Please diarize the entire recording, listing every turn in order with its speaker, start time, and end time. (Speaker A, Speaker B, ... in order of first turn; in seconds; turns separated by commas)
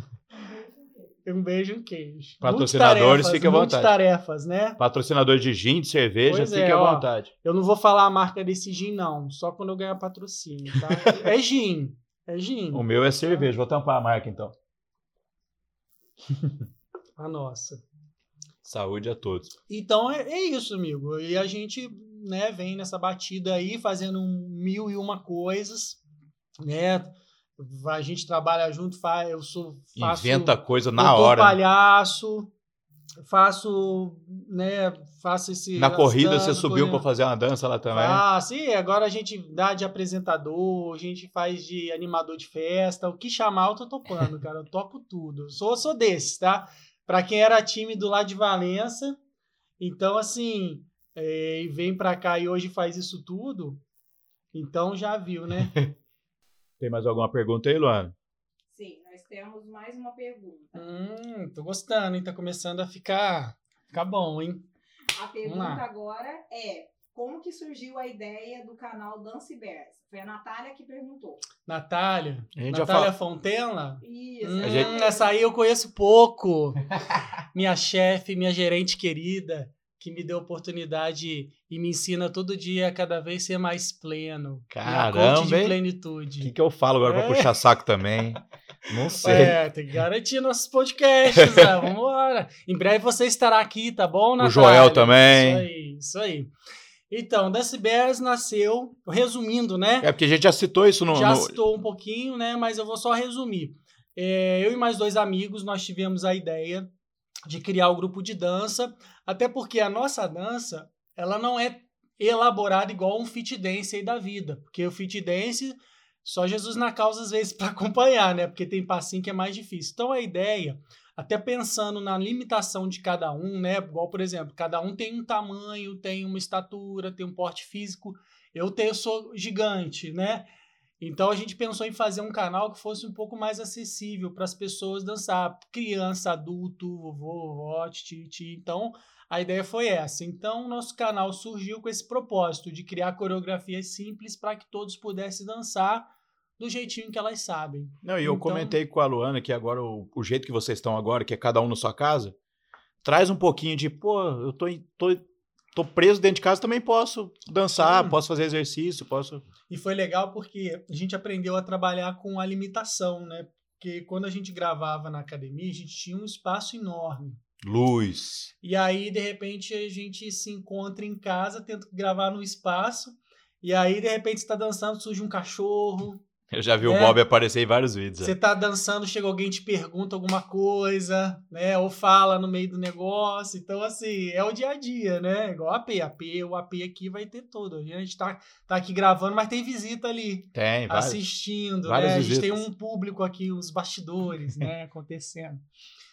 Speaker A: 0.3-1.1, Speaker B: 1.2-4.8, Speaker C: 2.4-3.9, Speaker C: 4.8-7.3, Speaker B: 6.2-13.5, Speaker C: 12.7-14.5, Speaker B: 17.2-17.8, Speaker C: 18.6-19.5, Speaker B: 19.7-26.0, Speaker B: 26.6-32.5, Speaker C: 30.0-31.6, Speaker B: 33.2-37.1, Speaker C: 35.8-38.2, Speaker B: 37.9-49.2, Speaker B: 49.8-53.8, Speaker B: 54.5-55.8, Speaker C: 55.6-55.9, Speaker C: 56.8-58.1, Speaker A: 58.7-60.9, Speaker B: 60.7-64.7, Speaker A: 65.2-71.4, Speaker B: 65.4-65.8, Speaker B: 71.7-76.8, Speaker C: 72.5-73.1, Speaker A: 74.0-75.3, Speaker C: 74.6-74.9, Speaker B: 77.5-86.5, Speaker C: 84.7-85.8, Speaker C: 86.4-89.6, Speaker B: 87.0-87.5, Speaker B: 89.2-96.5, Speaker C: 91.4-91.8, Speaker C: 94.4-95.7, Speaker B: 97.1-100.1, Speaker C: 100.0-101.6, Speaker B: 101.1-106.9, Speaker B: 107.5-130.5, Speaker B: 131.0-148.8, Speaker C: 148.0-152.3, Speaker C: 153.0-155.2, Speaker C: 155.7-159.4, Speaker B: 157.8-158.2, Speaker B: 159.7-167.4, Speaker C: 167.6-168.5, Speaker B: 168.6-176.2, Speaker C: 176.5-178.3, Speaker B: 176.8-177.2, Speaker B: 178.2-195.6, Speaker C: 190.5-191.2, Speaker C: 191.8-192.6